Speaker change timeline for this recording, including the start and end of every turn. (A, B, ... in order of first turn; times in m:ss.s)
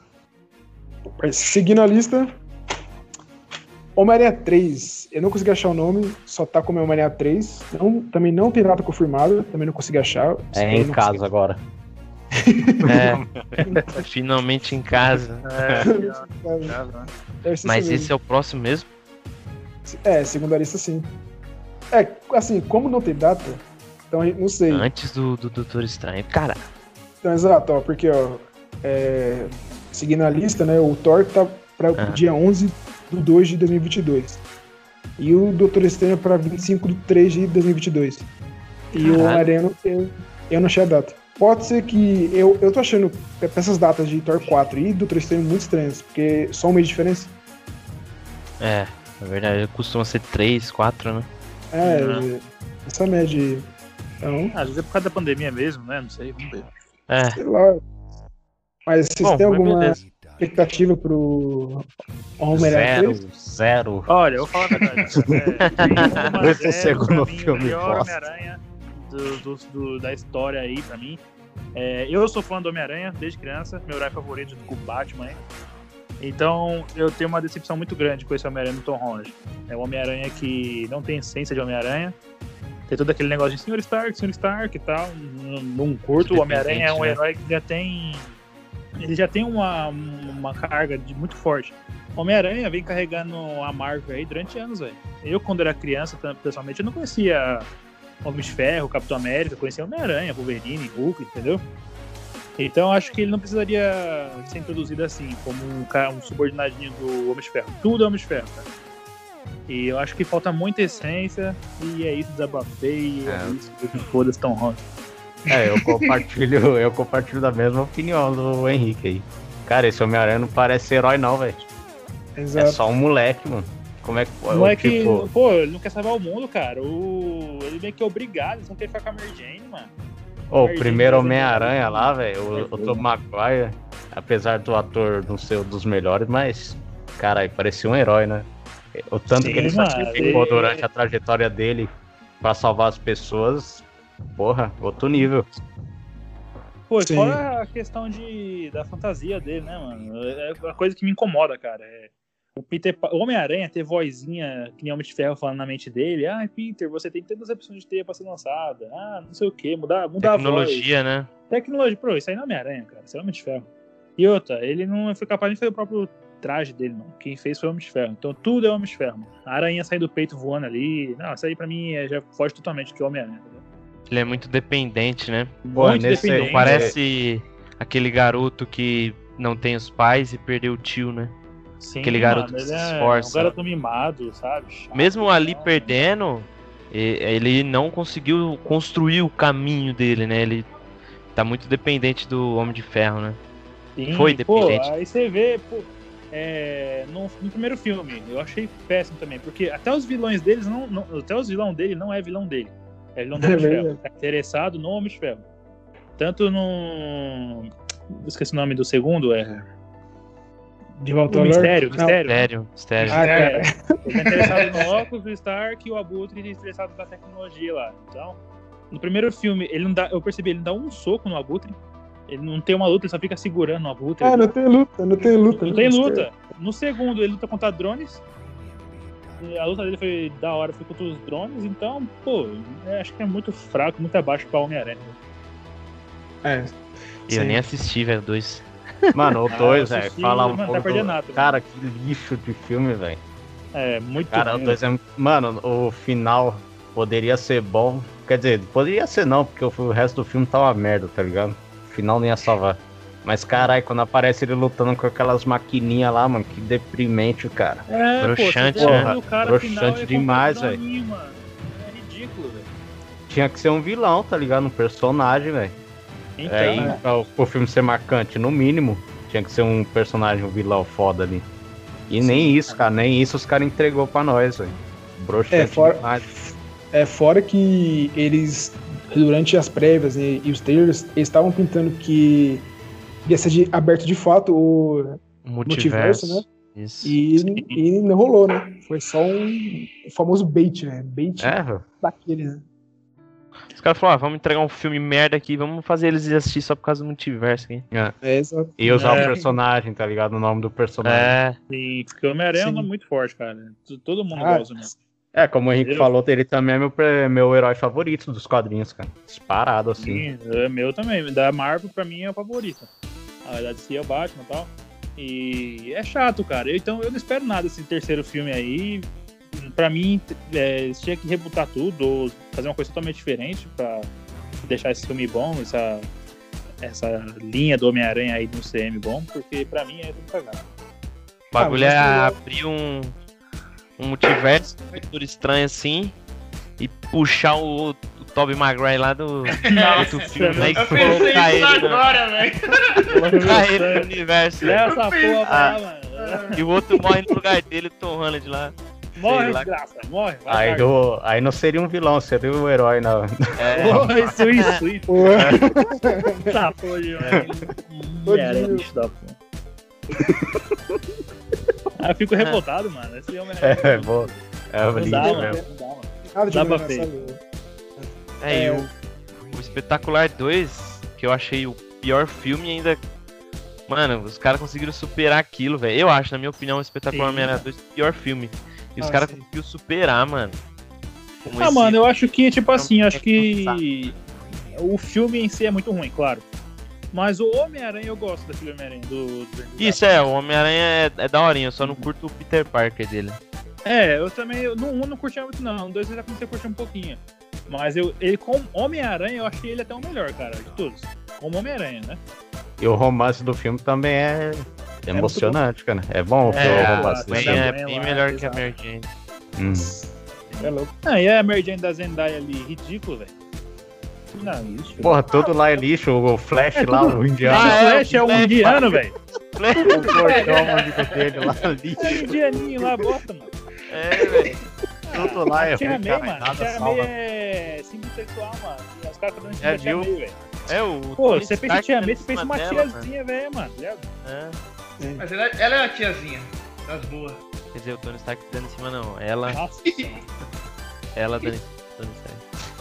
0:01.2-0:02.4 A
0:04.0-0:11.2 A
0:10.5-0:11.6 B
0:12.4-0:12.9 A
0:12.8-0:13.2 C
0:12.8-0:13.6 B
0:13.7-0:13.9 A
0:13.9-0:15.4 C
0:15.1-0:15.9 B
0:15.4-0:17.1 D
0:15.8-0:16.8 A
0:17.4-0:18.1 A
0:17.6-0:18.9 C
0:19.8-0:21.1 A
0:21.9-0:24.9 A
0:24.7-0:26.6 C
0:27.2-0:34.4 A
0:35.2-0:38.3 A
0:38.9-0:47.3 A
0:39.0-0:39.4 C
0:48.6-0:51.3 C
0:51.7-0:53.7 A
0:51.8-0:52.3 D
0:54.2-0:54.5 A
0:54.5-0:56.7 D
0:57.1-0:57.4 C
0:57.4-0:57.8 A
0:58.9-1:03.2 A
0:59.2-1:00.0 C
1:02.5-1:08.2 B
1:04.1-1:11.2 D
1:05.6-1:06.3 C
1:11.8-1:15.4 D
1:16.2-1:22.2 D
1:22.9-1:28.3 D
1:26.2-1:27.2 C
1:29.0-1:37.7 D
1:38.2-1:41.6 D
1:42.6-1:48.7 D
1:49.7-1:54.8 D
1:53.3-1:53.6 B
1:55.5-2:01.6 B
1:55.5-1:56.2 E
2:02.4-2:02.8 A
2:02.6-2:05.3 B
2:04.5-2:09.9 D
2:10.5-2:25.5 B
2:10.6-2:13.0 D
2:19.3-2:20.4 A
2:19.4-2:20.8 D
2:26.9-2:40.8 D
2:27.0-2:27.4 A
2:40.2-2:41.3 C
2:41.5-2:53.6 D
2:54.1-2:55.6 C
2:55.6-2:57.0 D
2:55.8-2:56.9 B
2:56.1-3:01.4 C
3:01.8-3:06.0 D
3:02.0-3:03.6 C
3:04.9-3:10.7 C
3:11.3-3:13.4 C
3:14.0-3:25.4 D
3:14.1-3:14.9 C
3:23.4-3:24.0 A
3:26.2-3:29.7 D
3:31.0-3:32.2 A
3:31.3-3:32.5 D
3:32.2-3:33.4 C
3:33.1-3:38.4 D
3:33.1-3:33.6 E
3:33.1-3:34.9 A
3:34.3-3:34.9 E
3:38.9-3:41.8 D
3:42.3-3:44.5 D
3:44.2-3:46.3 A
3:45.6-3:48.2 D
3:49.4-3:55.2 D
3:56.4-3:56.8 A
3:57.3-3:57.6 A
3:57.3-3:58.7 C
3:59.1-4:03.2 B
3:59.5-4:01.6 D
4:03.8-4:04.8 D
4:04.3-4:17.8 B
4:17.9-4:22.7 D
4:18.2-4:19.2 C
4:18.8-4:20.8 B
4:23.3-4:25.8 B
4:26.4-4:27.0 D
4:26.5-4:31.5 B
4:32.1-4:36.3 B
4:32.2-4:32.6 A
4:35.5-4:42.7 A
4:43.2-4:46.4 A
4:45.4-4:47.7 C
4:47.0-4:52.6 A
4:51.4-4:51.8 B
4:53.8-4:57.8 C
4:57.9-4:58.2 B
4:58.2-4:59.5 A
4:58.8-5:01.4 B
4:58.9-4:59.4 D
5:01.0-5:01.6 C
5:01.7-5:04.9 D
5:02.6-5:02.9 A
5:04.3-5:04.9 A
5:05.3-5:10.2 B
5:05.8-5:06.1 D
5:10.0-5:12.9 D
5:13.4-5:24.1 D
5:24.7-5:26.1 D
5:26.8-5:30.6 D
5:31.5-5:33.2 C
5:31.6-5:32.4 A
5:34.0-5:36.2 C
5:36.8-5:42.2 C
5:39.6-5:43.3 E
5:39.6-5:41.3 D
5:40.9-5:41.2 B
5:43.1-5:44.1 D
5:43.4-5:44.9 C
5:44.6-5:46.6 D
5:44.9-5:45.7 E
5:45.5-5:45.8 B
5:46.2-5:46.6 E
5:46.6-5:49.7 C
5:49.2-5:50.9 D
5:50.5-5:54.2 B
5:53.6-5:54.8 C
5:53.8-5:55.6 D
5:55.1-5:56.7 A
5:56.5-5:59.4 D
5:57.2-5:57.5 C
5:58.3-5:58.9 A
6:00.2-6:00.7 B
6:02.0-6:04.4 D
6:03.6-6:05.6 B
6:04.9-6:07.1 D
6:05.0-6:05.3 C
6:05.2-6:05.7 A
6:06.3-6:07.4 A
6:08.0-6:08.9 A
6:08.4-6:08.9 C
6:09.5-6:13.0 C
6:13.9-6:20.6 C
6:17.1-6:17.6 D
6:19.0-6:19.4 A
6:21.5-6:23.8 C
6:21.6-6:24.2 D
6:24.7-6:26.5 D
6:27.1-6:30.1 D
6:29.8-6:33.4 C
6:33.8-6:42.2 D
6:42.8-6:47.7 B
6:45.1-6:45.6 A
6:46.4-6:48.7 D
6:46.6-6:49.1 C
6:49.6-6:50.0 B
6:49.7-6:50.1 A
6:50.5-6:53.3 D
6:50.6-6:50.9 A
6:54.4-6:55.2 D
6:55.0-6:58.8 B
6:57.0-6:59.2 D
6:57.5-6:58.9 C
6:59.6-7:00.2 C
6:59.9-7:02.7 B
6:59.9-7:00.2 A
6:59.9-7:00.6 D
7:00.4-7:01.6 E
7:02.0-7:03.5 D
7:03.9-7:04.6 C
7:05.1-7:10.4 D
7:05.1-7:07.1 B
7:09.6-7:10.1 B
7:10.7-7:13.1 C
7:11.2-7:14.1 D
7:14.2-7:14.6 C
7:15.0-7:15.2 A
7:15.2-7:17.4 E
7:17.7-7:19.6 C
7:19.5-7:20.2 D
7:21.2-7:22.4 C